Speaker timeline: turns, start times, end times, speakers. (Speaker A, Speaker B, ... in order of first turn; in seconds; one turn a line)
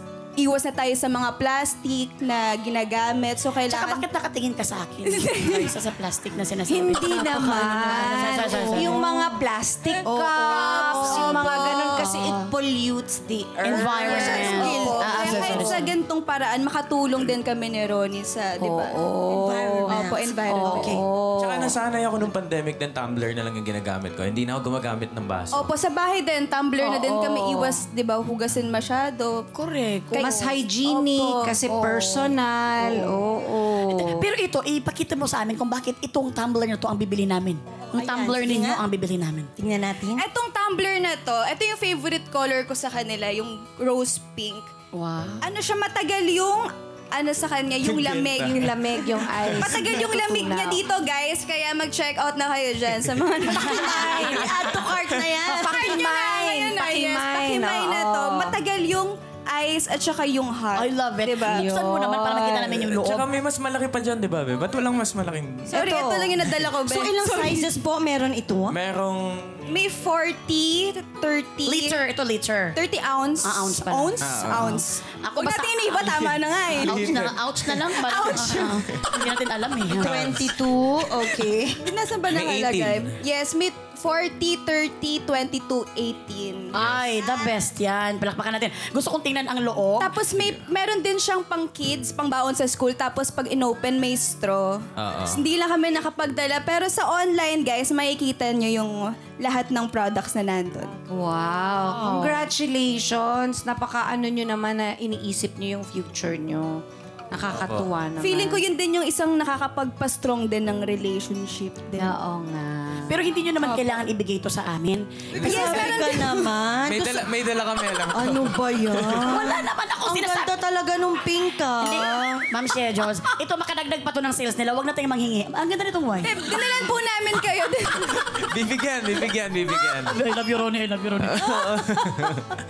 Speaker A: 0.4-4.0
Speaker B: 3.7-9.1
Speaker A: 5.1-5.7
Speaker C: 6.7-15.7
Speaker A: 8.8-9.1
Speaker D: 10.1-11.7
Speaker A: 10.6-11.7
Speaker B: 13.6-15.9
Speaker A: 14.0-19.0
Speaker D: 14.1-15.8
Speaker C: 18.6-19.9
Speaker D: 19.3-21.1
Speaker A: 19.9-21.1
Speaker B: 20.5-21.0
Speaker E: 21.4-25.7
Speaker A: 25.5-29.4
Speaker B: 26.8-27.7
Speaker B: 29.5-30.5
Speaker A: 30.1-31.6
Speaker C: 30.2-34.3
Speaker B: 31.7-33.1
Speaker B: 33.7-39.5
Speaker D: 37.9-38.8
Speaker D: 39.6-40.2
Speaker A: 40.2-44.7
Speaker B: 44.9-45.5
Speaker A: 45.4-61.7
Speaker E: 47.8-50.2
Speaker C: 48.5-50.8
Speaker E: 53.7-55.3
Speaker D: 53.9-56.0
Speaker C: 55.6-58.6
Speaker B: 60.7-63.3
Speaker E: 61.7-66.6
Speaker A: 65.7-67.7
Speaker D: 65.7-66.3
Speaker D: 66.8-68.8
Speaker E: 68.7-69.6
Speaker A: 69.7-72.0
Speaker B: 71.7-72.8
Speaker A: 72.8-77.2
Speaker B: 73.4-80.6
Speaker E: 74.2-74.8
Speaker E: 76.8-77.4
Speaker A: 77.9-78.8
Speaker E: 78.3-79.0
Speaker E: 80.0-80.6
Speaker D: 80.3-81.7
Speaker A: 81.2-86.7
Speaker E: 82.3-83.2
Speaker B: 86.7-90.2
Speaker A: 90.0-101.0
Speaker E: 90.3-90.7
Speaker E: 95.0-95.4
Speaker C: 101.1-108.7
Speaker E: 107.5-107.9
Speaker A: 108.2-112.2
Speaker C: 112.3-113.1
Speaker B: 113.0-116.3
Speaker E: 115.4-115.9
Speaker A: 115.4-116.3
Speaker D: 115.4-117.3
Speaker E: 116.8-119.3
Speaker D: 118.1-122.4
Speaker B: 119.1-120.5
Speaker B: 121.8-126.5
Speaker A: 126.2-128.3
Speaker E: 128.3-130.2
Speaker B: 130.1-131.7
Speaker E: 131.2-132.5